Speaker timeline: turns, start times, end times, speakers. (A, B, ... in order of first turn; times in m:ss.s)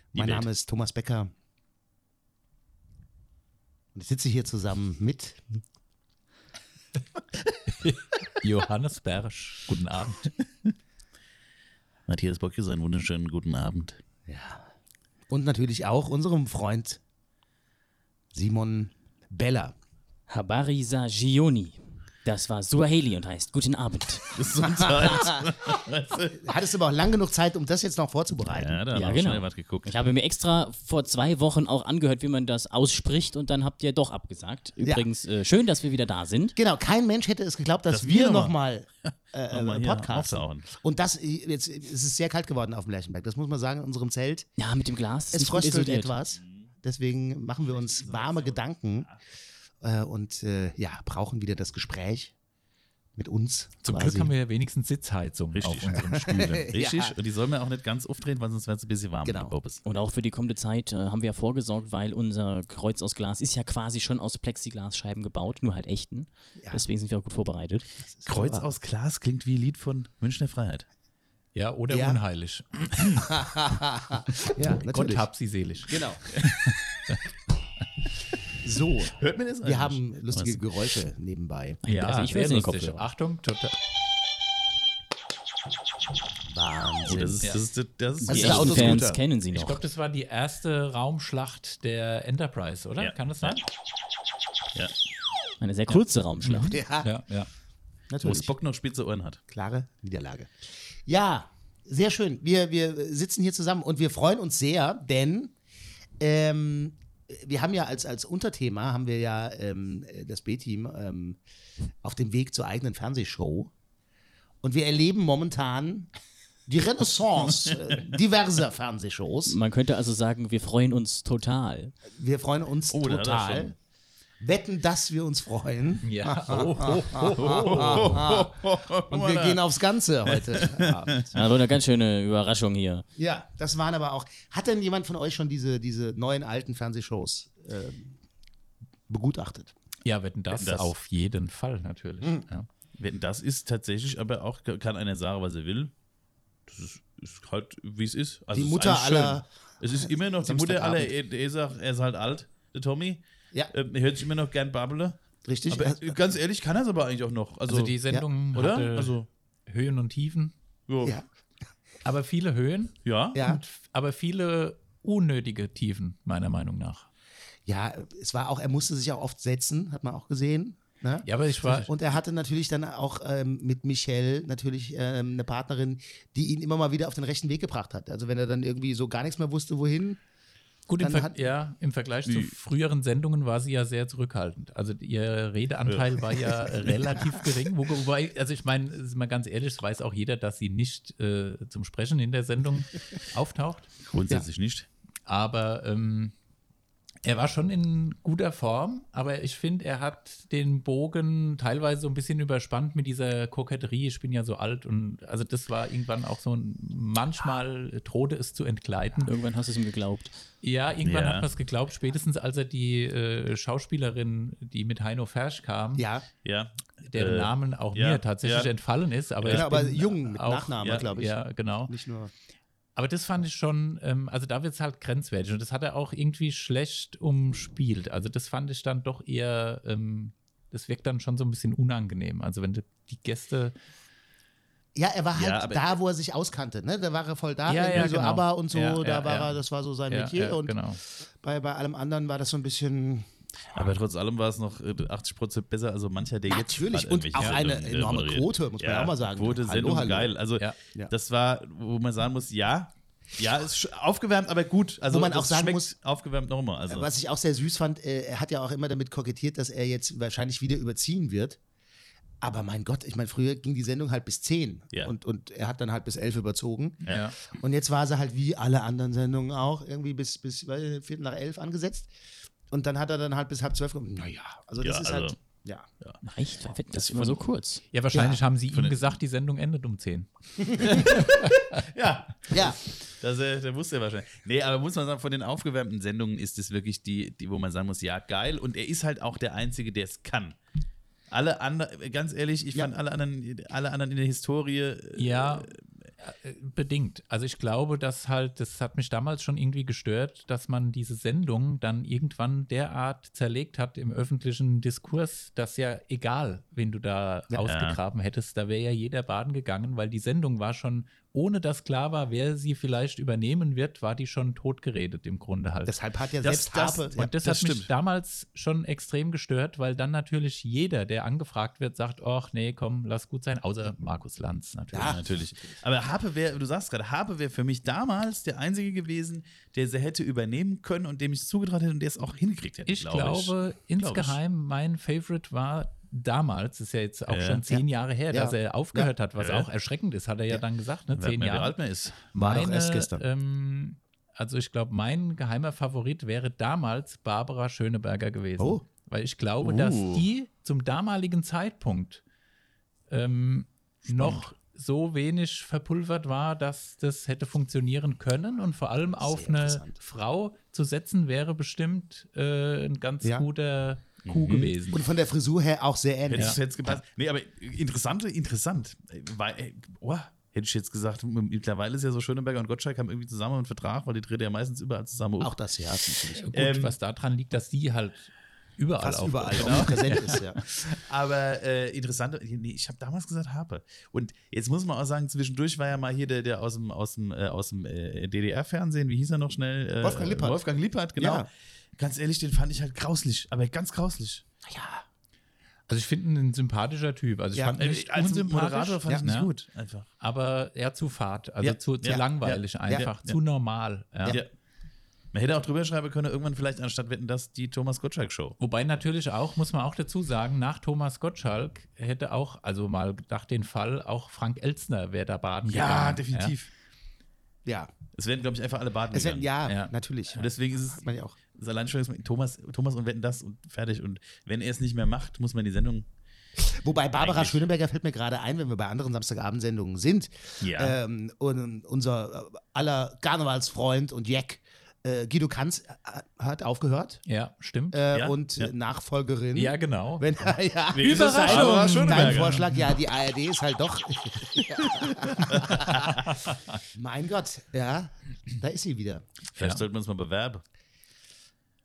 0:00.1-0:01.3 A
0:00.2-0:00.5 B
0:03.9-0:05.6 A
0:07.7-0:10.3 C
0:12.1-0:14.0 B
0:14.3-0:14.7 A
0:15.3-0:17.0 A
0:18.3-0:19.8 A
0:20.3-0:24.4 D
0:24.3-0:26.5 B
0:24.6-0:25.6 A
0:26.4-0:28.8 A
0:28.5-0:30.0 B
0:28.9-0:36.6 D
0:34.8-0:35.1 A
0:36.6-0:44.5 A
0:37.9-0:38.5 B
0:39.5-0:40.7 B
0:44.6-0:46.2 D
0:45.3-0:49.1 A
0:47.7-0:49.2 B
0:49.8-0:52.3 A
0:53.2-0:54.3 A
0:53.8-0:56.7 C
0:55.5-0:59.8 B
0:55.9-0:57.2 A
0:59.2-0:59.5 A
0:59.8-1:07.9 D
1:08.1-1:08.7 A
1:08.3-1:10.9 B
1:11.6-1:13.2 C
1:11.9-1:12.2 A
1:13.2-1:15.3 A
1:14.9-1:17.2 C
1:15.8-1:16.2 A
1:18.6-1:21.8 A
1:19.1-1:20.6 B
1:21.8-1:23.1 D
1:21.9-1:23.8 C
1:26.5-1:27.5 A
1:27.1-1:29.1 B
1:28.2-1:29.8 D
1:28.3-1:29.2 A
1:29.5-1:33.6 C
1:33.0-1:33.6 B
1:35.6-1:36.8 D
1:36.4-1:37.5 C
1:36.6-1:37.1 A
1:38.1-1:38.5 A
1:38.2-1:39.4 B
1:39.5-1:40.5 A
1:41.0-1:45.5 A
1:46.2-1:51.4 A
1:52.0-1:53.7 A
1:54.6-1:56.1 A
1:56.7-1:59.6 A
1:59.5-2:01.9 D
2:02.1-2:03.8 A
2:02.9-2:03.7 B
2:04.4-2:11.4 A
2:06.0-2:08.1 C
2:07.4-2:09.6 B
2:10.3-2:11.3 B
2:11.3-2:13.0 D
2:13.2-2:18.2 A
2:19.1-2:19.7 A
2:20.0-2:22.7 C
2:20.5-2:20.9 B
2:23.0-2:25.9 B
2:26.7-2:38.0 B
2:28.5-2:31.2 A
2:35.4-2:36.2 A
2:37.7-2:39.2 C
2:38.5-2:39.3 B
2:39.7-2:40.5 C
2:40.9-2:41.2 B
2:42.0-2:47.1 C
2:43.0-2:43.5 B
2:43.3-2:43.6 A
2:47.7-3:00.2 A
2:51.2-2:51.9 C
3:00.9-3:13.9 C
3:01.0-3:01.4 A
3:02.3-3:02.5 B
3:14.0-3:14.9 B
3:15.3-3:16.3 C
3:17.2-3:29.3 C
3:29.2-3:30.3 D
3:30.6-3:36.0 C
3:31.0-3:31.5 B
3:36.0-3:36.3 A
3:36.4-3:38.7 B
3:37.1-3:41.9 C
3:39.4-3:42.3 A
3:40.8-3:41.1 B
3:43.0-3:53.8 C
3:55.0-4:03.3 A
3:55.4-3:55.9 B
3:57.7-3:59.6 C
4:00.1-4:01.0 C
4:03.7-4:17.1 B
4:06.5-4:10.3 A
4:15.1-4:15.9 A
4:16.9-4:21.6 A
4:22.4-4:32.1 A
4:27.1-4:27.4 C
4:32.7-4:35.9 A
4:34.8-4:35.4 B
4:36.2-4:37.8 D
4:36.9-4:37.4 B
4:37.9-4:41.8 C
4:38.1-4:38.4 A
4:38.7-4:39.0 B
4:40.8-4:50.6 B
4:42.5-4:42.8 A
4:51.3-4:55.8 B
4:55.2-5:16.0 C
5:07.6-5:08.0 B
5:15.9-5:17.3 A
5:16.4-5:17.9 B
5:17.2-5:25.2 C
5:24.9-5:25.3 A
5:25.0-5:34.4 B
5:32.9-5:52.2 C
5:37.3-5:37.6 B
5:37.7-5:39.1 A
5:39.4-5:39.7 B
5:41.2-5:42.2 B
5:42.4-5:43.2 A
5:48.6-5:48.8 A
5:49.6-5:50.3 B
5:53.1-6:05.1 C
5:54.1-5:54.5 B
5:59.2-6:00.0 A
6:04.2-6:04.7 B
6:04.9-6:06.6 A
6:06.3-6:15.6 B
6:15.4-6:16.5 A
6:16.4-6:20.9 C
6:16.5-6:17.0 B
6:19.0-6:20.6 A
6:19.5-6:20.1 B
6:20.9-6:34.4 B
6:30.0-6:30.6 A
6:31.2-6:31.5 A
6:34.7-6:35.1 A
6:35.9-6:39.5 C
6:37.5-6:37.8 A
6:37.8-6:40.1 B
6:40.2-6:44.4 C
6:41.6-6:43.4 B
6:42.0-6:43.1 A
6:45.3-6:48.6 B
6:48.6-6:56.5 C
6:55.7-6:56.7 B
6:57.6-6:57.9 A
6:58.1-6:59.5 B
6:59.1-7:01.4 A
6:59.7-6:59.9 C
7:00.3-7:01.0 B
7:01.5-7:06.1 B
7:06.6-7:17.2 A
7:07.2-7:07.6 B
7:10.6-7:11.0 B
7:17.3-7:18.0 C
7:17.9-7:26.2 A
7:18.1-7:18.7 B
7:19.6-7:20.3 C
7:21.0-7:22.7 B
7:21.0-7:22.8 C
7:24.8-7:26.6 B
7:26.9-7:29.2 A
7:29.6-7:30.6 B
7:29.6-7:29.8 C